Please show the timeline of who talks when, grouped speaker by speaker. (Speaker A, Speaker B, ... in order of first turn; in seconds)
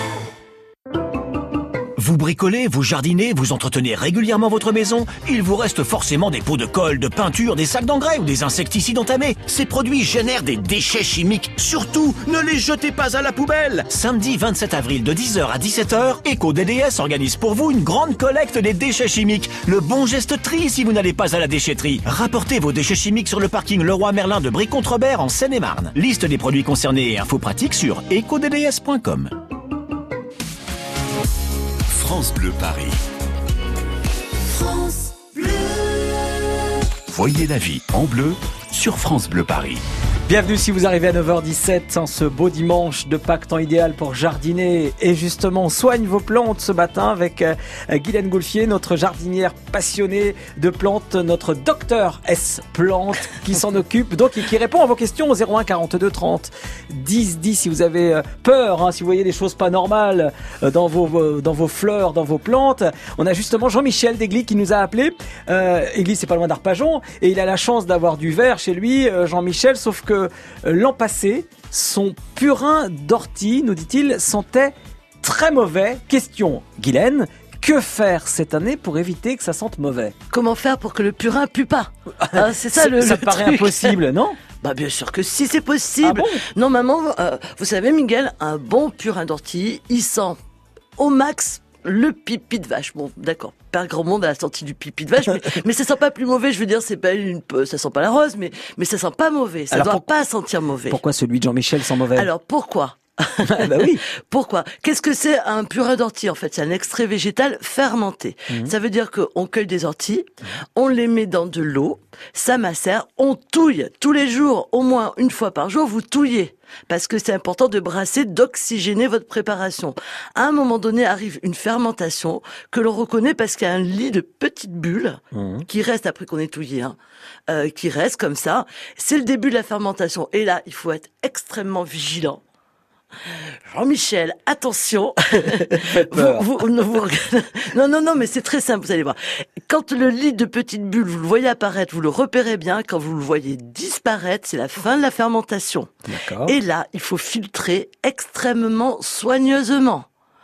Speaker A: 2.0-29.3
Speaker B: 31.9-33.0, 37.1-39.8
Speaker C: 40.3-80.1, 82.2-84.4, 86.0-86.4, 99.7-100.0, 100.9-102.3, 103.4-104.0, 125.3-125.7, 135.4-136.5, 146.1-146.6
Speaker D: 80.3-84.0, 84.6-90.4, 91.0-101.0, 102.2-127.0, 127.5-132.4, 133.7-145.9, 146.4-150.1